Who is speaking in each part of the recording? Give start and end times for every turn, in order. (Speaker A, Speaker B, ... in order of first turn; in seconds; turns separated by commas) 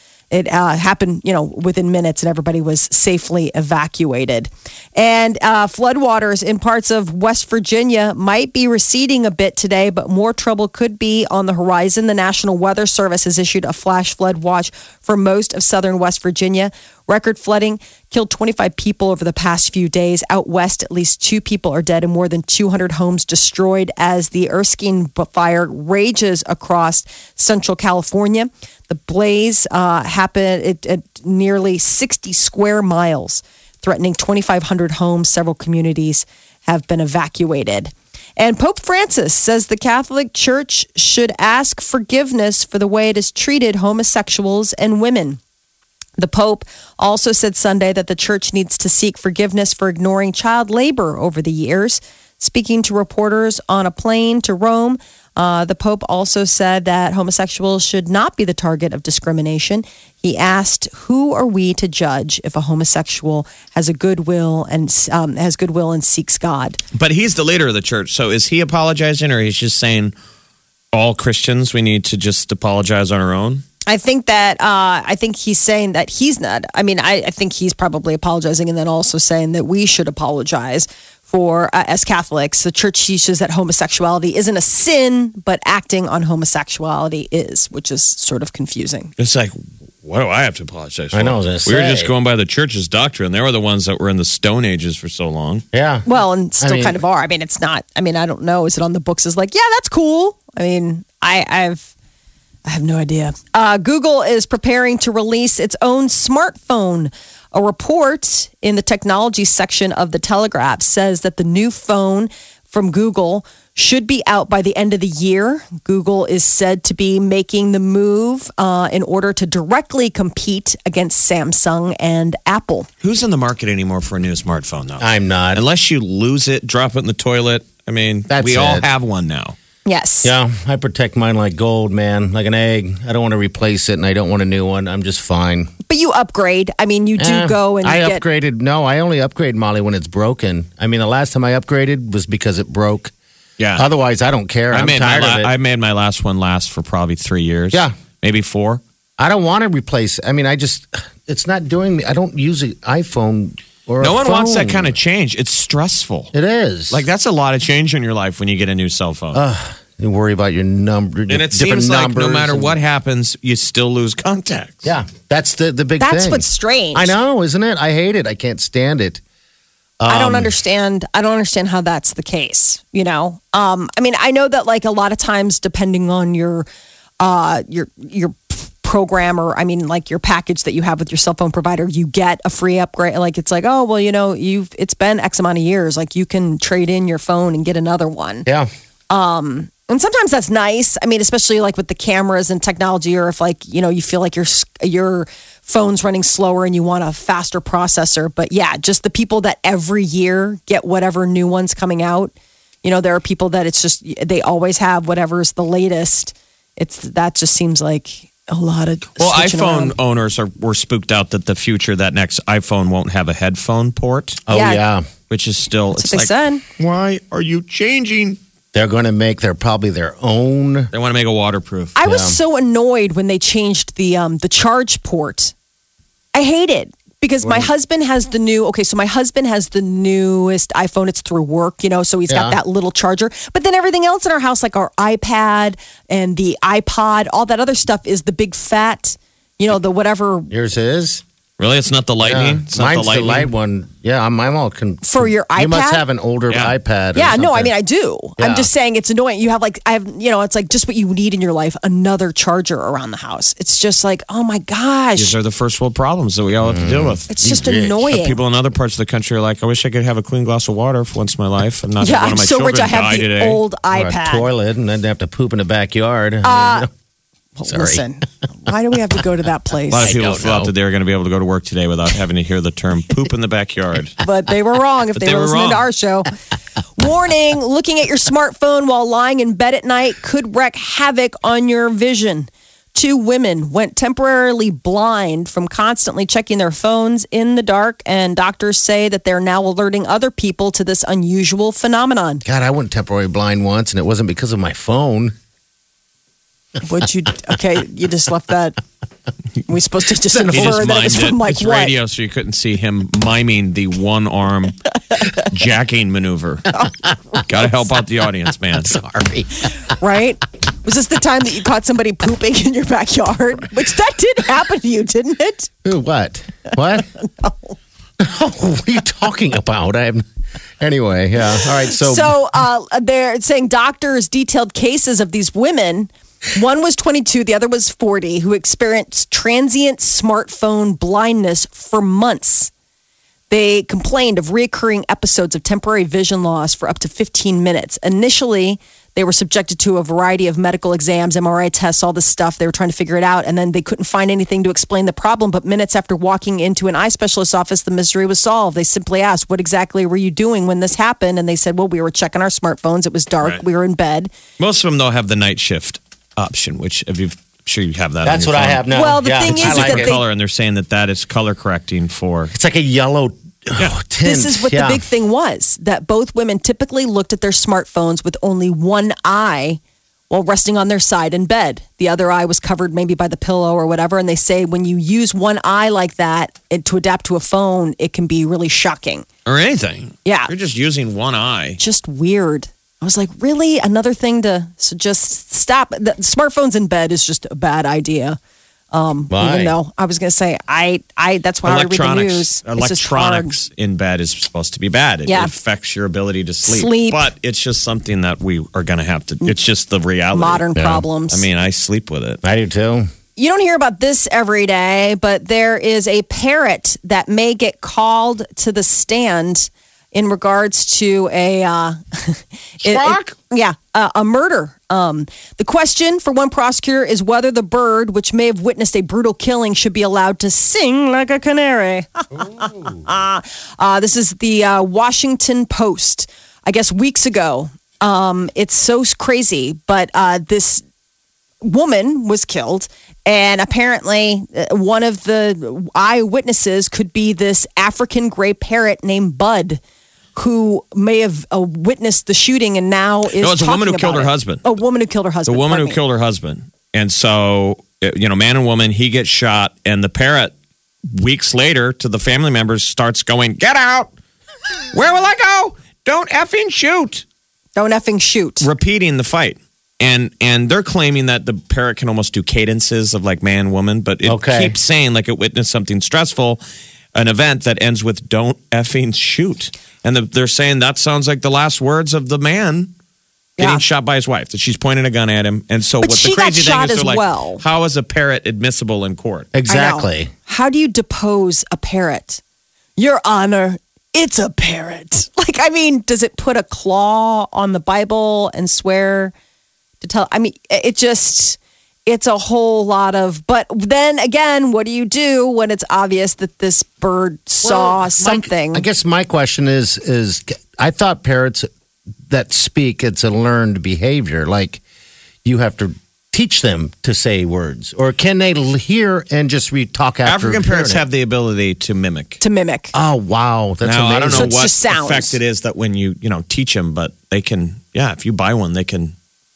Speaker A: 0.3-45.4, Speaker A: 46.2-66.8, Speaker B: 66.9-70.1, Speaker B: 70.9-73.6, Speaker A: 73.9-89.1, Speaker B: 89.2-95.7, Speaker C: 91.1-92.1, Speaker C: 95.7-96.1, Speaker A: 96.1-101.9, Speaker C: 96.6-97.0, Speaker A: 102.7-122.9, Speaker B: 123.0-129.6, Speaker C: 125.0-125.6, Speaker C: 128.3-128.9, Speaker A: 129.9-130.3, Speaker C: 130.2-135.7, Speaker A: 135.9-138.2, Speaker C: 137.2-143.1, Speaker B: 143.6-143.9, Speaker C: 143.8-145.5, Speaker B: 144.7-148.8, Speaker C: 149.2-155.0, Speaker B: 154.0-156.3, Speaker C: 156.3-157.0, Speaker B: 156.9-159.4, Speaker C: 159.3-162.8, Speaker B: 161.3-164.9, Speaker C: 164.8-169.2, Speaker A: 166.0-167.2, Speaker C: 170.0-170.5, Speaker A: 170.1-176.7, Speaker A: 177.2-188.5, Speaker A: 189.1-202.3, Speaker A: 202.8-209.9, Speaker B: 209.2-214.4, Speaker C: 214.5-215.1, Speaker A: 214.5-214.8, Speaker B: 215.3-218.4, Speaker A: 215.9-216.6, Speaker C: 218.7-220.9, Speaker B: 220.9-221.9, Speaker A: 222.0-225.5, Speaker C: 222.0-222.4, Speaker A: 226.3-240.5, Speaker C: 227.4-227.7, Speaker C: 232.3-232.6, Speaker C: 240.5-241.2, Speaker B: 241.6-243.5, Speaker C: 242.2-247.7, Speaker A: 245.0-246.1, Speaker A: 247.2-255.4, Speaker C: 248.4-248.7, Speaker B: 255.2-257.3, Speaker C: 256.6-258.1, Speaker A: 257.3-258.4, Speaker B: 258.1-263.6, Speaker A: 262.0-264.5, Speaker C: 263.9-266.9, Speaker A: 266.4-266.9, Speaker A: 267.6-270.1, Speaker C: 267.7-268.0, Speaker B: 269.9-274.2, Speaker C: 270.0-270.7, Speaker A: 274.2-276.3, Speaker B: 275.2-275.9, Speaker A: 277.0-292.4, Speaker C: 292.4-295.3, Speaker A: 296.8-298.8, Speaker A: 299.7-301.9, Speaker C: 300.3-300.9, Speaker B: 300.5-304.8, Speaker B: 305.4-306.7, Speaker B: 307.3-309.0, Speaker C: 308.8-309.7, Speaker A: 309.9-315.7, Speaker C: 315.9-317.1, Speaker A: 317.2-317.8, Speaker C: 318.2-320.2, Speaker C: 320.8-322.4, Speaker A: 321.9-332.7, Speaker A: 333.5-354.3, Speaker B: 354.6-358.8, Speaker C: 358.2-360.1, Speaker A: 358.9-360.2, Speaker B: 359.4-362.5, Speaker C: 362.5-365.0, Speaker A: 364.2-379.3, Speaker B: 379.5-381.8, Speaker A: 380.2-380.5, Speaker A: 381.8-388.4, Speaker A: 388.9-393.5, Speaker C: 389.3-389.8, Speaker B: 391.6-400.7, Speaker A: 395.3-395.5, Speaker A: 396.6-397.3, Speaker A: 400.3-401.4, Speaker C: 400.8-401.0, Speaker B: 401.3-402.4, Speaker C: 402.4-403.1, Speaker A: 403.4-430.8, Speaker B: 412.8-413.3, Speaker C: 422.4-423.0, Speaker A: 431.6-439.8, Speaker A: 440.4-446.0, Speaker B: 443.4-444.6, Speaker B: 445.5-450.5, Speaker B: 451.1-454.1, Speaker B: 454.9-457.2, Speaker A: 457.8-458.7, Speaker B: 458.6-466.6, Speaker C: 464.3-464.8, Speaker B: 467.1-472.9, Speaker A: 473.6-473.8, Speaker B: 473.6-479.5, Speaker A: 476.0-477.6, Speaker C: 479.5-480.3, Speaker A: 479.7-482.4, Speaker A: 483.0-489.3, Speaker A: 490.0-498.9, Speaker C: 497.6-501.7, Speaker C: 502.3-504.8, Speaker C: 505.4-511.0, Speaker B: 510.2-512.4, Speaker A: 512.4-512.9, Speaker C: 512.9-514.6, Speaker B: 513.8-519.1, Speaker A: 514.3-515.4